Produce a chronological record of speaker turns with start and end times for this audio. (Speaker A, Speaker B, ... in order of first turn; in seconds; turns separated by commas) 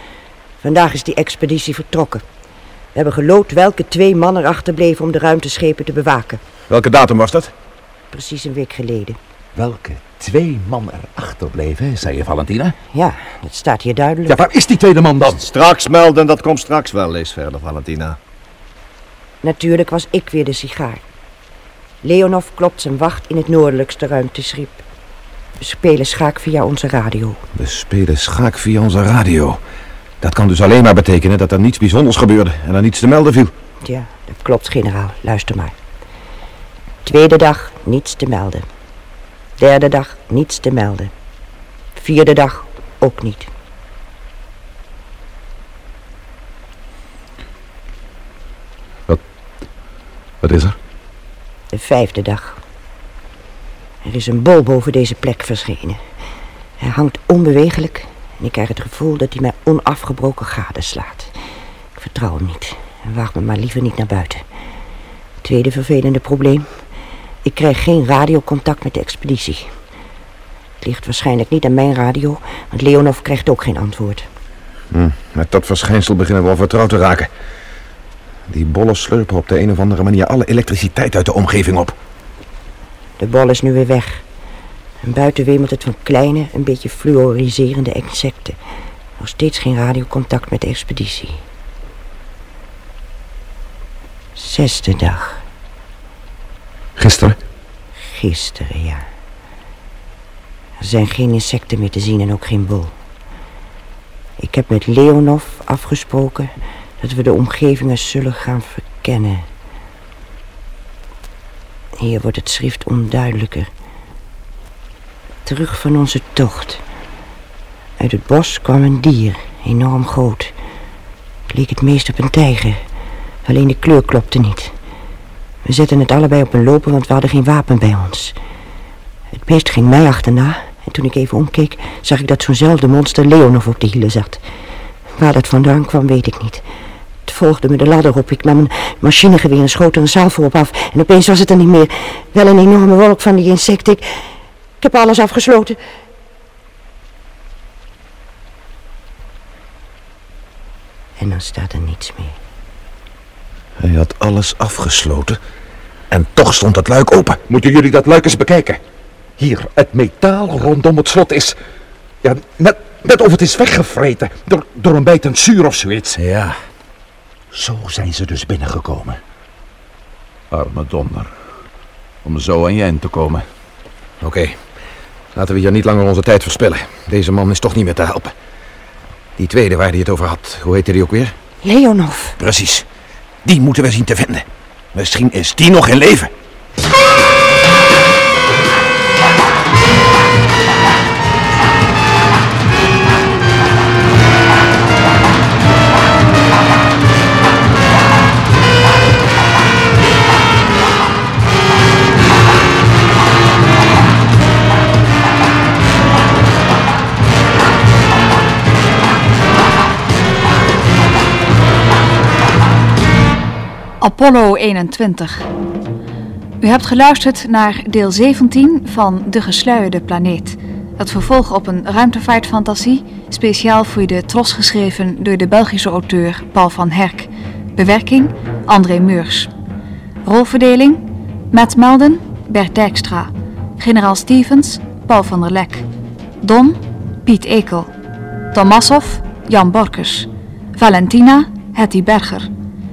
Speaker A: 0.6-2.2, Speaker A: 2.9-6.4, Speaker B: 6.7-7.5, Speaker A: 8.1-9.2, Speaker C: 9.6-12.7, Speaker A: 12.9-14.4, Speaker C: 14.3-15.5, Speaker D: 15.4-18.2, Speaker A: 19.4-21.0, Speaker A: 22.0-24.8, Speaker A: 25.6-27.4, Speaker B: 27.5-29.6, Speaker B: 30.2-33.5, Speaker A: 33.8-35.8, Speaker A: 37.0-38.6, Speaker A: 39.6-41.1, Speaker A: 42.0-43.5, Speaker C: 50.4-50.8, Speaker A: 51.7-52.6, Speaker A: 54.0-56.0, Speaker A: 56.8-61.3, Speaker A: 62.0-64.4, Speaker A: 65.4-66.7, Speaker A: 67.4-69.7, Speaker A: 70.8-74.3, Speaker B: 74.9-77.3, Speaker B: 78.5-81.9, Speaker A: 83.2-84.2, Speaker A: 85.0-88.6, Speaker A: 89.2-91.4, Speaker A: 94.3-95.4, Speaker C: 97.0-97.3, Speaker A: 98.1-99.0, Speaker A: 100.8-102.9, Speaker A: 104.4-106.5, Speaker A: 107.0-109.4, Speaker A: 112.0-113.7, Speaker A: 115.4-116.8, Speaker A: 118.0-120.5, Speaker A: 121.5-122.8, Speaker A: 123.4-124.7, Speaker A: 125.6-128.3, Speaker A: 129.3-134.4, Speaker A: 135.2-136.6, Speaker A: 137.3-144.1, Speaker A: 144.8-145.8, Speaker A: 151.2-152.3, Speaker B: 153.8-155.4, Speaker B: 156.1-157.4, Speaker C: 157.5-158.8, Speaker C: 159.4-161.6, Speaker C: 162.2-166.2, Speaker B: 166.2-166.5, Speaker C: 167.5-169.2, Speaker C: 170.5-171.3, Speaker C: 172.2-173.4, Speaker B: 174.2-174.6, Speaker B: 175.3-178.3, Speaker B: 179.4-181.3, Speaker A: 181.6-182.3, Speaker B: 182.4-182.8, Speaker B: 183.4-186.3, Speaker E: 214.0-215.4, Speaker E: 216.6-229.5, Speaker E: 230.2-235.8, Speaker E: 236.4-237.9, Speaker E: 238.5-242.5